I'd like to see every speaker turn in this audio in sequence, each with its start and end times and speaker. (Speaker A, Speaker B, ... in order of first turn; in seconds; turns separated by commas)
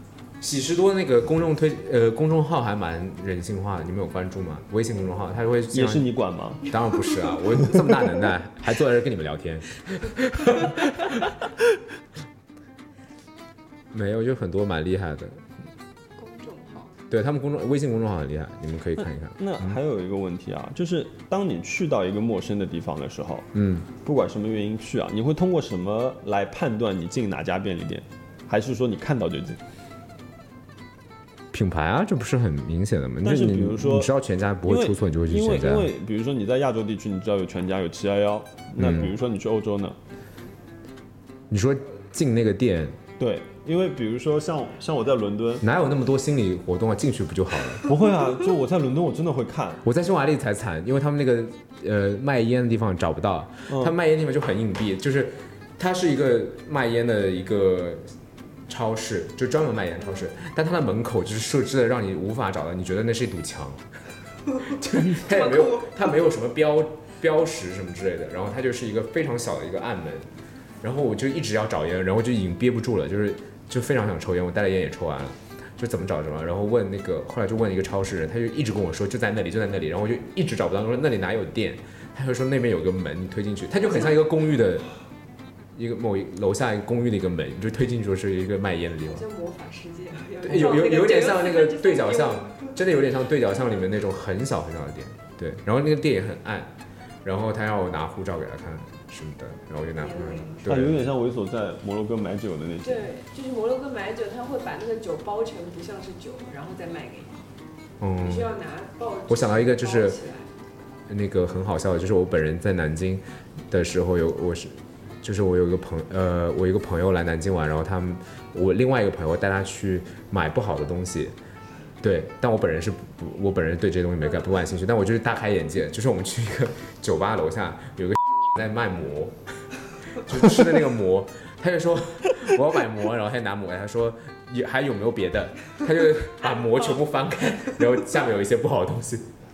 Speaker A: 0.4-6.0, Speaker B: 5.7-6.7, Speaker A: 6.6-11.3, Speaker B: 7.6-7.9, Speaker A: 13.9-15.4, Speaker C: 16.2-16.9, Speaker A: 17.1-19.8, Speaker B: 19.4-23.5, Speaker A: 23.5-23.9, Speaker B: 24.0-29.6, Speaker A: 31.5-35.9, Speaker B: 33.2-34.1, Speaker B: 34.6-40.0, Speaker A: 38.8-39.1, Speaker A: 41.5-43.0, Speaker B: 43.2-45.6, Speaker A: 45.6-47.9, Speaker B: 47.9-49.8, Speaker A: 49.9-58.1, Speaker B: 53.7-54.0, Speaker A: 58.7-63.8, Speaker C: 60.0-60.2, Speaker A: 64.6-70.3, Speaker C: 65.2-65.9, Speaker A: 70.8-84.9, Speaker C: 83.8-84.2, Speaker A: 85.7-89.2, Speaker C: 89.0-92.8, Speaker A: 90.4-96.7, Speaker A: 97.2-101.0, Speaker C: 100.0-100.7, Speaker B: 100.7-103.0, Speaker C: 102.8-107.5, Speaker A: 108.0-108.5, Speaker C: 108.2-110.5, Speaker A: 109.3-110.2, Speaker A: 111.1-121.3, Speaker A: 122.0-129.4, Speaker A: 130.2-139.2, Speaker C: 136.4-137.0